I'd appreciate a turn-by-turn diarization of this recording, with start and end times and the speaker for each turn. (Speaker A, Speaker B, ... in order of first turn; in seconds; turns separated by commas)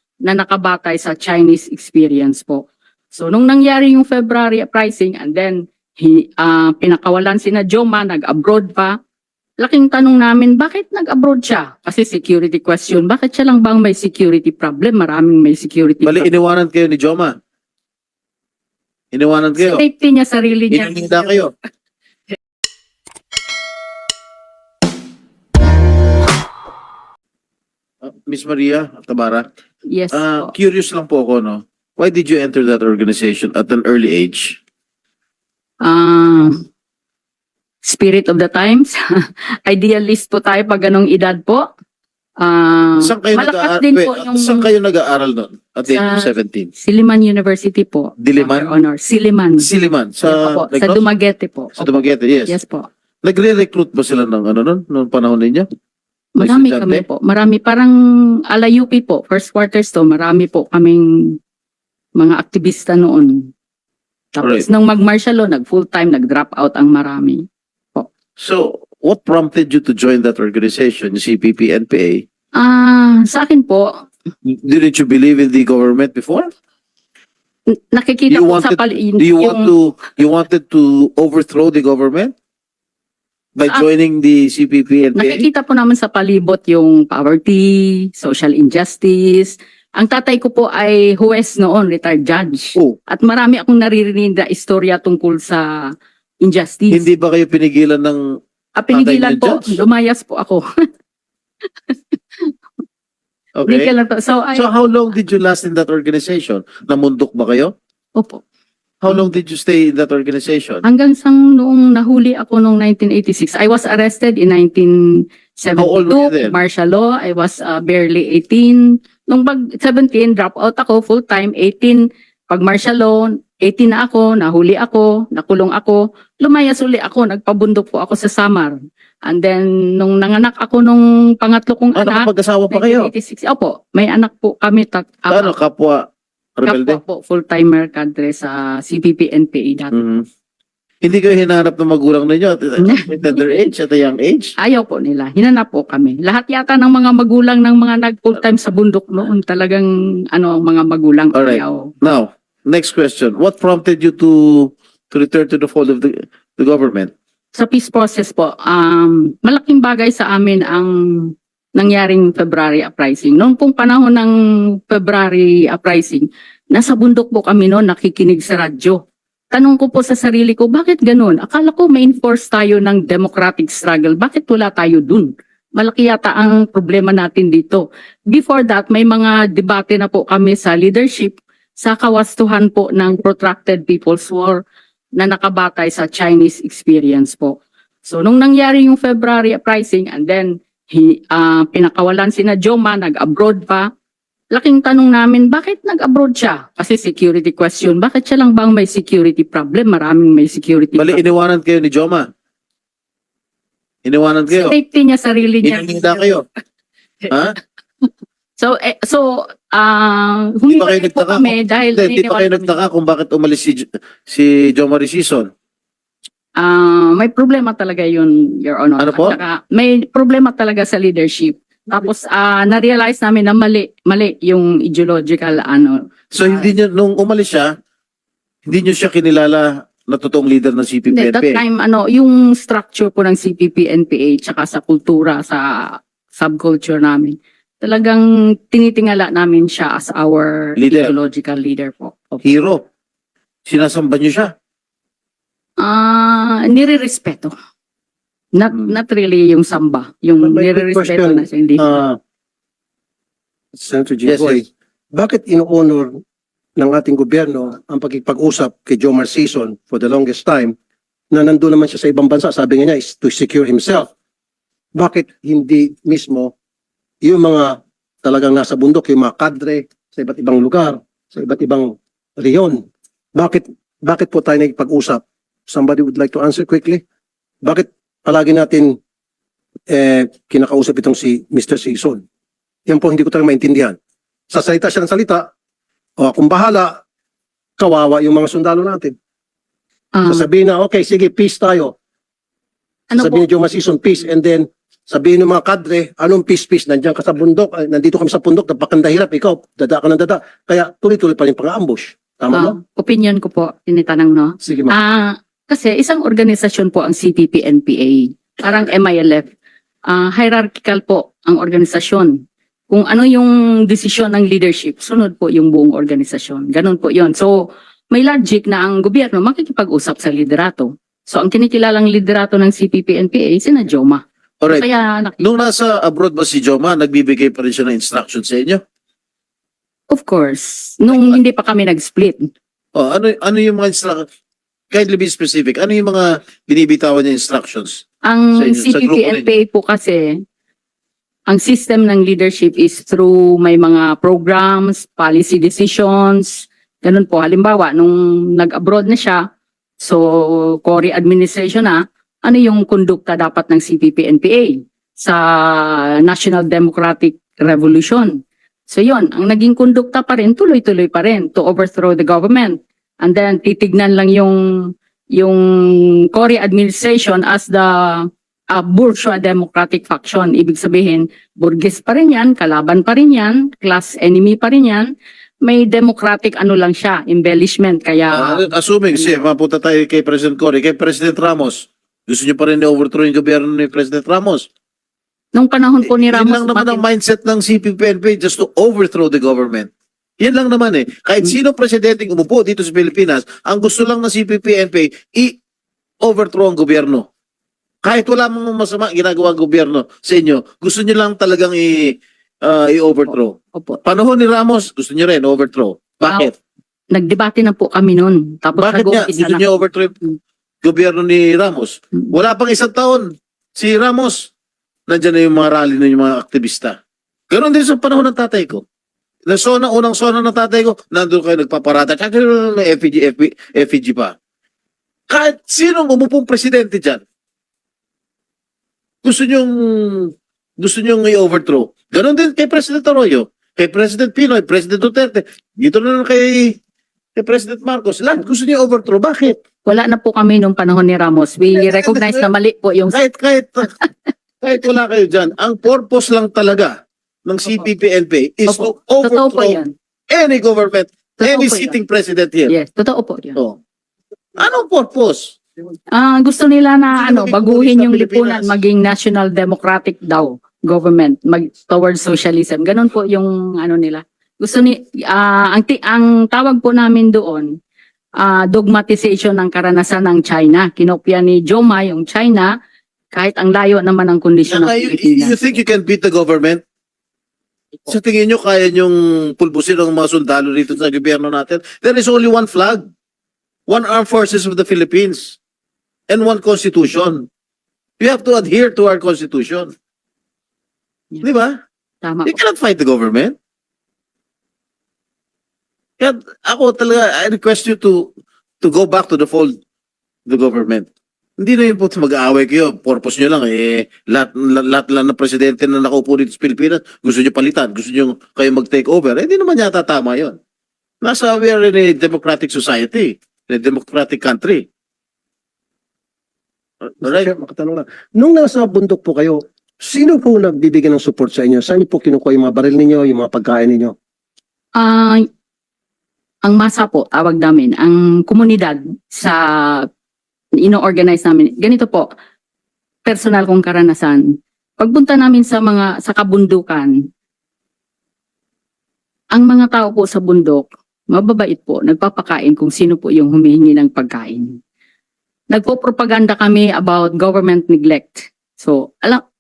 Speaker A: 0.2-9.0, Speaker A: 9.6-16.3, Speaker B: 16.0-17.4, Speaker B: 19.1-19.8, Speaker A: 19.6-21.4, Speaker B: 20.7-21.5, Speaker B: 28.0-29.5, Speaker A: 29.9-30.5, Speaker B: 30.1-34.6, Speaker A: 35.8-36.6, Speaker A: 37.9-39.0, Speaker A: 39.7-41.6, Speaker A: 42.4-44.7, Speaker B: 43.0-46.7, Speaker A: 45.9-49.7, Speaker B: 48.2-48.8, Speaker B: 49.6-51.1, Speaker A: 50.2-52.9, Speaker B: 51.8-52.5, Speaker B: 53.2-55.7, Speaker A: 56.4-57.9, Speaker B: 56.4-57.0, Speaker A: 58.5-61.4, Speaker A: 62.2-63.5, Speaker A: 64.3-68.1, Speaker B: 64.4-64.7, Speaker B: 68.4-72.2, Speaker A: 72.6-74.1, Speaker B: 74.5-76.5, Speaker A: 77.7-79.7, Speaker B: 78.3-82.3, Speaker B: 83.6-85.5, Speaker A: 85.2-95.7, Speaker A: 96.4-97.1, Speaker B: 96.9-98.2, Speaker A: 98.8-100.7, Speaker B: 98.9-99.8, Speaker A: 101.9-102.5, Speaker B: 103.6-103.9, Speaker A: 103.7-104.7, Speaker B: 104.5-107.7, Speaker B: 109.0-110.8, Speaker A: 110.8-115.0, Speaker A: 115.6-128.8, Speaker B: 115.8-116.6, Speaker A: 129.3-135.5, Speaker B: 132.0-133.1, Speaker B: 135.3-136.0, Speaker B: 136.6-137.0, Speaker A: 136.7-140.0, Speaker B: 139.9-140.2, Speaker B: 141.0-144.6, Speaker A: 142.8-143.1, Speaker A: 144.6-151.9, Speaker B: 151.3-157.1, Speaker A: 157.6-164.3, Speaker A: 164.9-169.0, Speaker A: 169.5-184.6, Speaker A: 185.2-193.9, Speaker A: 194.5-201.2, Speaker B: 201.0-202.3, Speaker B: 204.1-204.8, Speaker A: 204.5-206.3, Speaker B: 205.6-206.4, Speaker B: 207.3-207.6, Speaker A: 208.0-212.7, Speaker B: 210.7-215.5, Speaker A: 216.6-226.7, Speaker B: 219.0-219.4, Speaker B: 226.3-227.7, Speaker B: 228.7-231.6, Speaker A: 231.1-242.4, Speaker B: 240.8-241.1, Speaker B: 242.4-242.8, Speaker B: 243.7-244.5, Speaker A: 245.8-247.5, Speaker A: 248.6-252.0, Speaker C: 250.4-252.2, Speaker C: 253.8-256.2, Speaker B: 254.3-254.6, Speaker C: 256.8-260.7, Speaker C: 261.3-264.1, Speaker C: 264.9-266.5, Speaker C: 267.2-272.8, Speaker C: 273.4-277.0, Speaker C: 277.6-278.9, Speaker C: 279.9-282.2, Speaker C: 282.9-284.0, Speaker C: 284.5-285.5, Speaker C: 286.2-286.9, Speaker C: 287.8-289.1, Speaker A: 290.1-290.5, Speaker C: 290.3-291.9, Speaker A: 293.1-293.4, Speaker C: 293.2-302.8, Speaker A: 302.5-309.5, Speaker C: 304.6-304.9, Speaker A: 310.1-312.3, Speaker A: 312.9-317.5, Speaker A: 318.1-325.4, Speaker B: 325.4-328.8, Speaker A: 330.1-332.5, Speaker B: 331.1-331.4, Speaker B: 333.0-334.2, Speaker B: 334.9-338.0, Speaker A: 338.3-340.3, Speaker B: 338.6-339.5, Speaker A: 341.5-349.4, Speaker A: 350.0-358.3, Speaker A: 358.9-364.6, Speaker A: 365.4-375.1, Speaker A: 375.6-378.7, Speaker B: 378.3-384.7, Speaker A: 385.6-387.0, Speaker B: 386.1-389.9, Speaker B: 390.4-395.6, Speaker B: 396.2-397.3, Speaker B: 398.0-406.5, Speaker A: 403.7-404.0, Speaker A: 407.1-409.7, Speaker B: 408.8-410.2, Speaker B: 410.8-414.5, Speaker B: 415.1-417.0, Speaker B: 417.5-418.8, Speaker B: 419.5-424.4, Speaker B: 425.3-427.2, Speaker B: 429.2-436.8, Speaker B: 437.4-439.6, Speaker A: 439.9-443.2, Speaker B: 441.8-442.5, Speaker B: 443.1-443.9, Speaker B: 444.6-449.8, Speaker A: 448.7-449.9, Speaker B: 450.3-452.7, Speaker A: 451.4-452.0, Speaker A: 452.7-453.6, Speaker B: 454.6-455.5, Speaker A: 456.1-467.7, Speaker B: 457.1-458.8, Speaker A: 468.4-472.7, Speaker A: 473.3-475.8, Speaker B: 474.7-476.8, Speaker B: 478.1-483.1, Speaker B: 483.9-485.6, Speaker B: 486.3-487.5, Speaker B: 488.2-489.9, Speaker B: 491.4-491.8, Speaker A: 492.2-492.6, Speaker B: 492.5-493.6, Speaker B: 496.2-498.3, Speaker B: 498.8-499.7, Speaker B: 500.5-501.1, Speaker B: 501.6-510.6, Speaker B: 511.2-514.9, Speaker B: 517.1-517.5, Speaker C: 517.2-524.1, Speaker A: 525.0-525.5, Speaker A: 526.6-530.1, Speaker A: 530.8-532.3, Speaker A: 533.3-534.4, Speaker A: 535.0-537.1, Speaker A: 539.5-544.7, Speaker A: 545.7-549.4